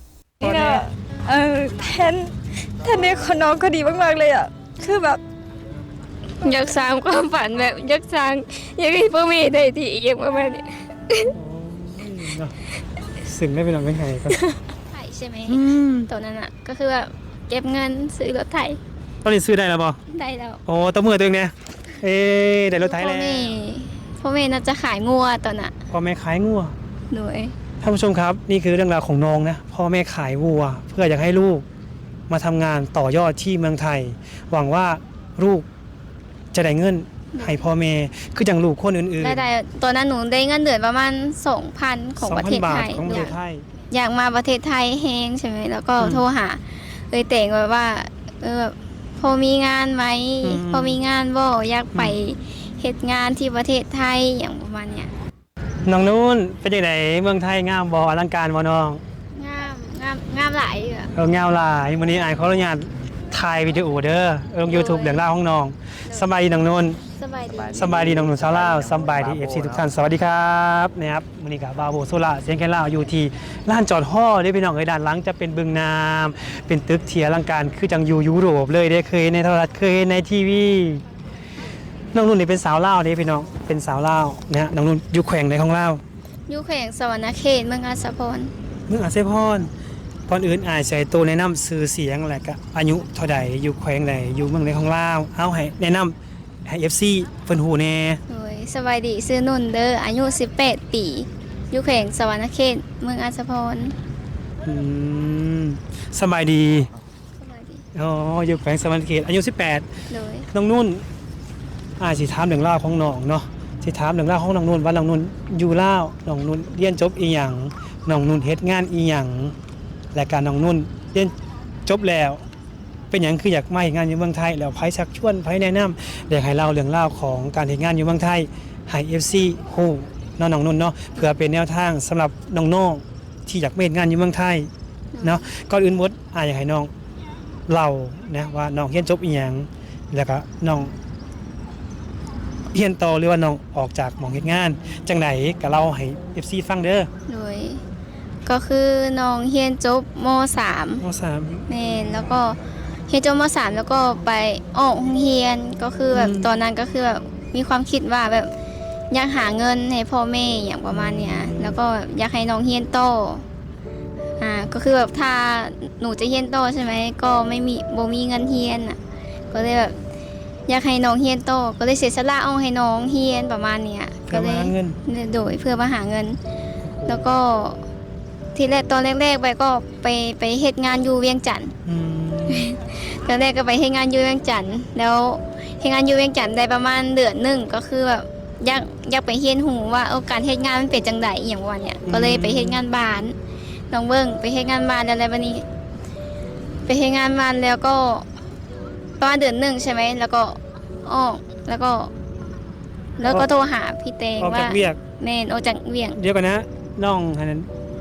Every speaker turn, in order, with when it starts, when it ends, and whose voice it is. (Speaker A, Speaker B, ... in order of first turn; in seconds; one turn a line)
Speaker A: 0.4-0.8
Speaker B: 0.4-5.2
Speaker C: 6.4-11.3
Speaker A: 11.3-12.5
Speaker A: 13.2-14.4
Speaker C: 14.3-18.8
Speaker A: 15.5-16.1
Speaker A: 19.2-20.0
Speaker C: 20.1-20.6
Speaker A: 20.7-23.5
Speaker C: 22.8-25.8
Speaker A: 25.9-26.7
Speaker C: 27.1-27.5
Speaker A: 27.8-31.6
Speaker A: 32.3-35.6
Speaker A: 36.5-39.4
Speaker C: 37.3-37.6
Speaker C: 39.2-43.4
Speaker A: 42.2-43.6
Speaker C: 43.9-55.1
Speaker A: 46.0-46.2
Speaker A: 50.4-51.0
Speaker A: 55.9-59.0
Speaker C: 59.3-61.1
Speaker A: 61.1-67.0
Speaker C: 64.7-65.2
Speaker C: 67.2-67.9
Speaker A: 67.7-81.0
Speaker A: 82.1-86.0
Speaker C: 86.5-88.5
Speaker A: 88.9-89.7
Speaker A: 90.3-98.2
Speaker C: 98.3-103.9
Speaker A: 104.6-106.9
Speaker C: 107.4-107.8
Speaker A: 107.9-109.8
Speaker C: 110.1-110.5
Speaker A: 110.5-111.0
Speaker A: 112.0-119.5
Speaker A: 120.1-121.3
Speaker A: 121.8-122.4
Speaker A: 123.1-134.7
Speaker C: 135.1-135.5
Speaker A: 135.2-136.9
Speaker A: 137.7-140.9
Speaker A: 142.7-147.1
Speaker C: 147.3-147.8
Speaker C: 148.4-151.0
Speaker A: 151.0-151.6
Speaker C: 151.7-158.5
Speaker A: 156.1-156.5
Speaker C: 159.1-163.4
Speaker A: 160.9-161.8
Speaker C: 164.4-169.0
Speaker C: 169.5-170.0
Speaker C: 170.7-176.4
Speaker A: 174.3-175.0
Speaker A: 176.8-177.3
Speaker C: 177.0-177.8
Speaker C: 178.5-181.7
Speaker A: 181.8-182.7
Speaker C: 182.5-193.3
Speaker A: 192.1-192.8
Speaker C: 193.9-195.6
Speaker C: 196.8-198.3
Speaker C: 199.2-202.1
Speaker C: 203.2-206.2
Speaker A: 204.4-205.0
Speaker A: 206.2-207.7